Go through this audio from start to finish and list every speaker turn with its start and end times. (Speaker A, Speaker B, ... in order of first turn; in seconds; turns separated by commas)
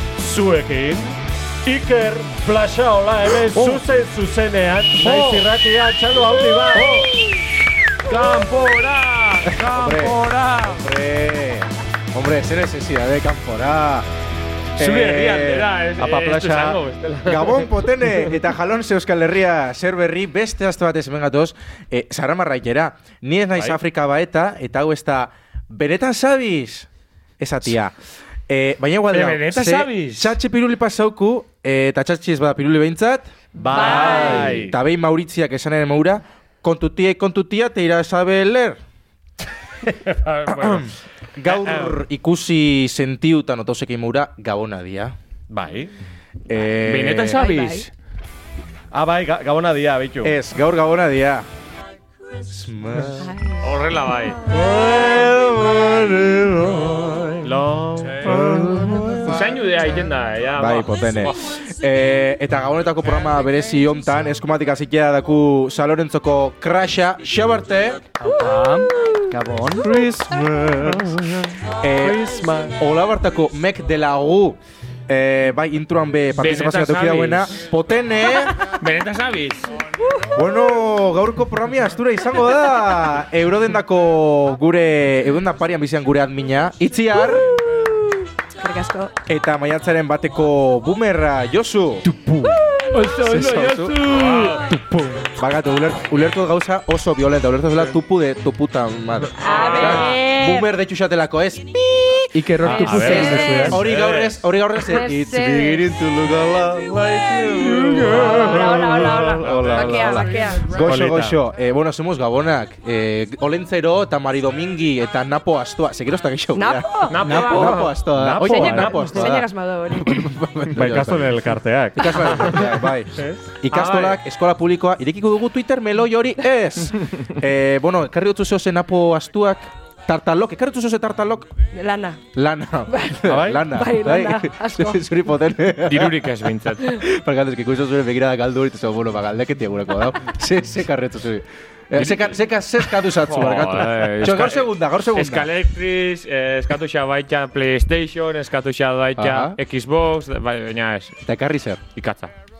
Speaker A: 0.1-7.1, Speaker B: 3.5-3.8, Speaker B: 5.0-5.5, Speaker C: 6.7-7.0, Speaker B: 6.7-7.1, Speaker C: 8.0-10.8, Speaker B: 9.5-14.1, Speaker B: 14.8-15.7, Speaker C: 14.8-17.7, Speaker A: 16.0-16.8, Speaker B: 17.2-27.9, Speaker B: 28.5-38.8, Speaker C: 29.1-30.4, Speaker A: 33.5-34.8, Speaker D: 33.7-34.6, Speaker A: 39.9-40.4, Speaker C: 40.5-40.8, Speaker B: 40.5-45.1, Speaker A: 41.5-42.0, Speaker A: 45.5-45.9, Speaker B: 46.5-47.9, Speaker C: 46.8-47.8, Speaker D: 47.3-47.9, Speaker A: 48.9-50.4, Speaker B: 50.2-51.5, Speaker B: 52.5-53.3, Speaker D: 53.3-53.6, Speaker C: 53.6-54.4, Speaker B: 54.5-57.6, Speaker A: 57.4-59.0, Speaker B: 58.2-59.4, Speaker C: 59.2-61.5, Speaker B: 60.5-68.0, Speaker E: 68.2-69.9, Speaker B: 69.8-71.1, Speaker A: 69.8-72.8, Speaker B: 71.8-78.6, Speaker C: 76.4-77.6, Speaker C: 78.6-79.7, Speaker B: 80.3-87.8, Speaker D: 88.6-89.1, Speaker B: 89.2-92.1, Speaker B: 92.9-106.6, Speaker C: 93.0-94.6, Speaker C: 99.4-100.2, Speaker D: 99.4-100.2, Speaker E: 102.3-103.8, Speaker A: 102.6-104.3, Speaker D: 102.8-103.8, Speaker D: 104.8-105.9, Speaker A: 106.2-111.4, Speaker D: 107.0-107.6, Speaker B: 107.8-108.8, Speaker D: 108.1-110.7, Speaker B: 109.4-121.4, Speaker D: 116.5-120.2, Speaker C: 117.1-118.0, Speaker A: 118.1-119.4, Speaker A: 120.7-122.6, Speaker B: 121.9-131.6, Speaker A: 123.2-123.4, Speaker C: 123.7-124.2, Speaker D: 131.7-132.2, Speaker B: 132.3-136.3, Speaker D: 132.9-135.0, Speaker A: 133.2-133.7, Speaker C: 135.8-137.0, Speaker B: 136.9-145.5, Speaker C: 143.2-151.2, Speaker B: 149.2-149.6, Speaker B: 151.2-151.8, Speaker C: 151.9-152.3